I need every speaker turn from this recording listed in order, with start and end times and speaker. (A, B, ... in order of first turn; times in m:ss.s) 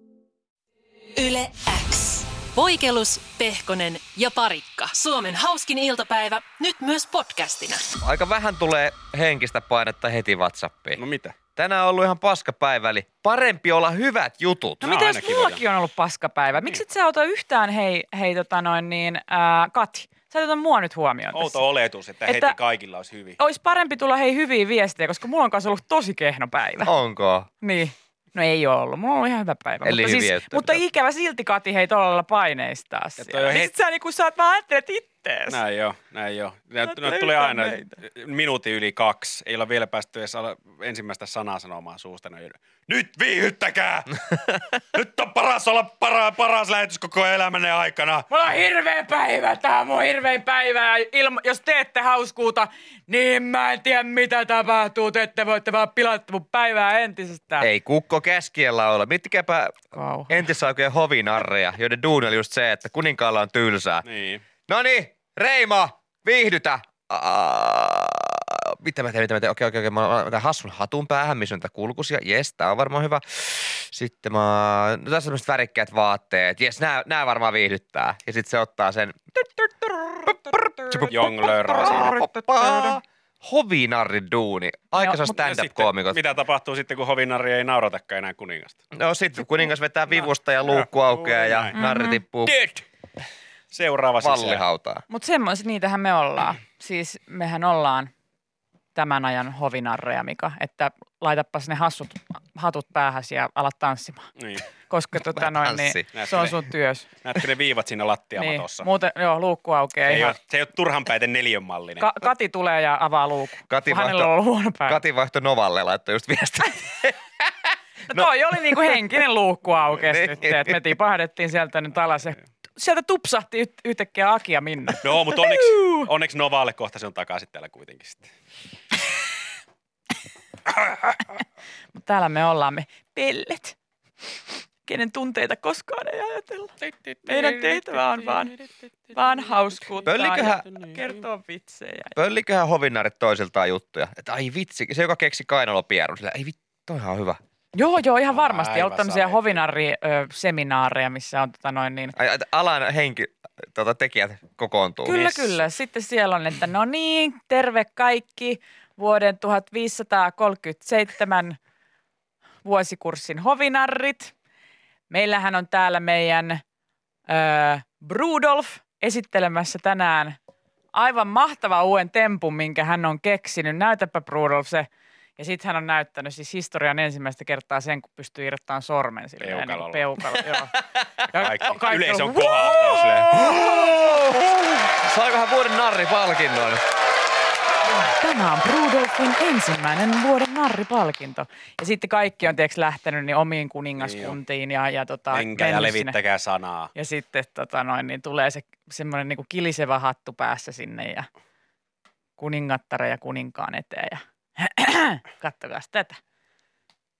0:01.1-0:07.9 A
0:08.0-0:11.0 B
0:10.9-0:11.3 C
0:11.6-0:14.9 B
0:14.8-0:21.6 D
0:14.8-0:15.6 C
0:21.3-0:23.4 C
0:22.2-0:22.6 D
0:23.4-0:26.9 D
0:26.8-0:27.5 B
0:27.6-0:35.6 D
0:29.8-0:30.8 B
0:33.2-0:33.7 C
0:35.5-0:48.3 C
0:36.8-0:38.0 D
0:48.3-0:57.7 D
0:57.6-1:04.1 B
0:59.9-1:00.4 D
1:04.0-1:04.4 C
1:04.7-1:19.5 B
1:20.2-1:26.2 B
1:21.1-1:22.3 C
1:25.3-1:28.8 C
1:28.9-1:32.5 B
1:30.6-1:31.8 C
1:31.7-1:32.2 D
1:32.4-1:32.8 C
1:33.7-1:34.6 C
1:34.2-1:35.0 B
1:35.1-1:38.1 D
1:38.9-1:44.3 D
1:44.4-1:44.6 C
1:44.9-1:47.1 D
1:45.3-1:46.1 B
1:46.1-1:46.6 C
1:47.2-1:48.9 C
1:48.4-1:50.4 D
1:50.1-1:52.1 C
1:52.0-1:55.0 D
1:53.7-1:54.3 B
1:54.9-1:57.5 B
1:58.1-2:06.1 D
1:58.1-1:59.0 B
2:00.0-2:00.6 B
2:05.0-2:08.3 C
2:11.9-2:13.8 D
2:14.8-2:16.7 D
2:16.8-2:18.0 C
2:17.2-2:22.1 D
2:20.0-2:20.9 B
2:20.3-2:21.1 C
2:22.2-2:27.4 B
2:27.7-2:32.1 D
2:28.3-2:29.6 C
2:32.2-2:35.3 B
2:35.0-2:41.6 D
2:35.1-2:35.6 C
2:42.6-2:44.3 D
2:45.1-2:46.6 D
2:47.3-2:50.4 D
2:50.9-3:00.7 D
2:59.4-3:00.0 C
3:01.3-3:03.8 D
3:01.3-3:03.6 C
3:02.6-3:06.8 B
3:08.2-3:16.2 D
3:14.0-3:14.4 C
3:15.3-3:16.9 C
3:16.9-3:21.3 D
3:22.4-3:26.2 D